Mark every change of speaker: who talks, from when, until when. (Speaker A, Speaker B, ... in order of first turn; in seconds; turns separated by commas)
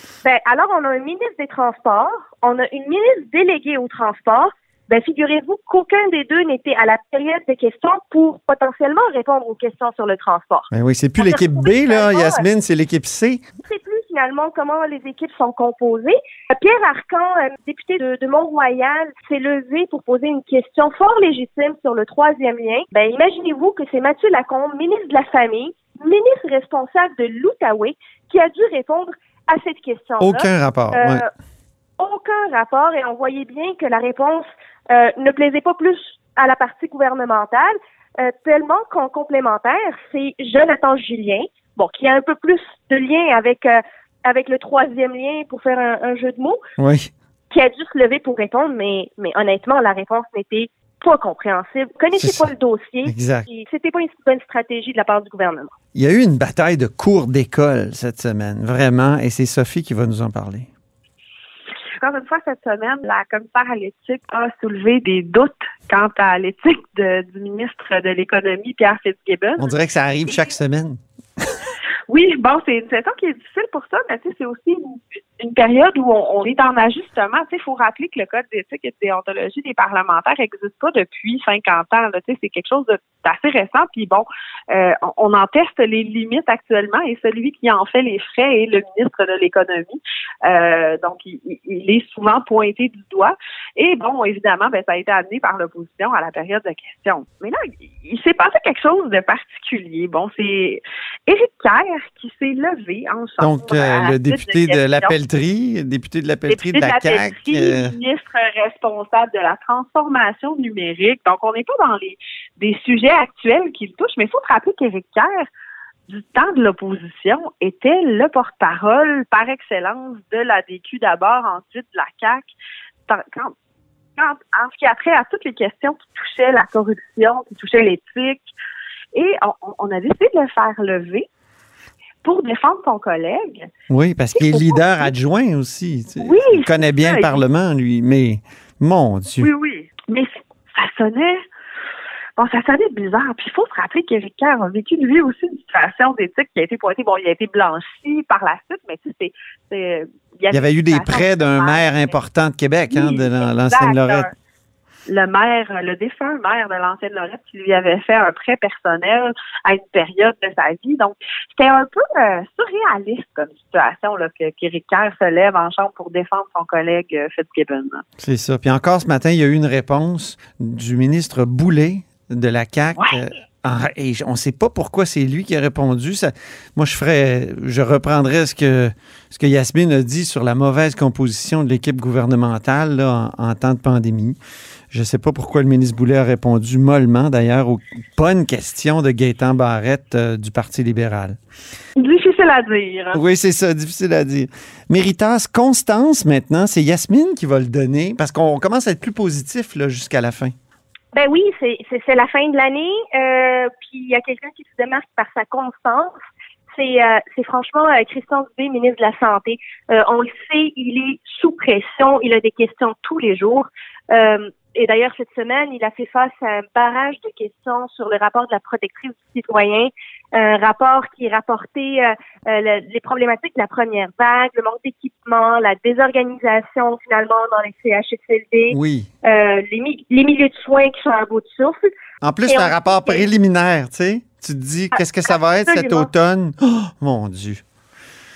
Speaker A: 0.2-10.7, Speaker B: 10.7-13.4, Speaker A: 11.2-12.4, Speaker A: 13.7-31.3, Speaker B: 30.2-31.2, Speaker A: 32.0-46.6, Speaker B: 46.8-47.1, Speaker A: 47.5-55.7, Speaker B: 52.1-52.5, Speaker B: 53.0-53.5, Speaker B: 55.9-60.7, Speaker C: 62.0-69.7, Speaker B: 69.6-71.5, Speaker C: 72.1-105.1, Speaker B: 103.4-107.9, Speaker C: 106.5-115.5, Speaker C: 116.1-122.5, Speaker C: 123.1-123.5, Speaker C: 124.2-128.5, Speaker C: 129.1-131.3, Speaker C: 132.2-133.7, Speaker B: 133.9-139.5, Speaker C: 134.3-135.1, Speaker C: 136.2-137.4, Speaker C: 139.4-141.4, Speaker C: 142.4-152.1, Speaker B: 150.5-154.3, Speaker C: 152.9-154.3, Speaker C: 155.1-168.0, Speaker B: 168.2-184.4, Speaker B: 184.9-191.4, Speaker C: 192.0-193.2, Speaker B: 193.1-200.5, Speaker A: 201.1-206.1, Speaker A: 206.7-231.9, Speaker B: 228.7-229.1, Speaker B: 232.2-237.6, Speaker A: 232.4-233.2, Speaker A: 235.7-236.1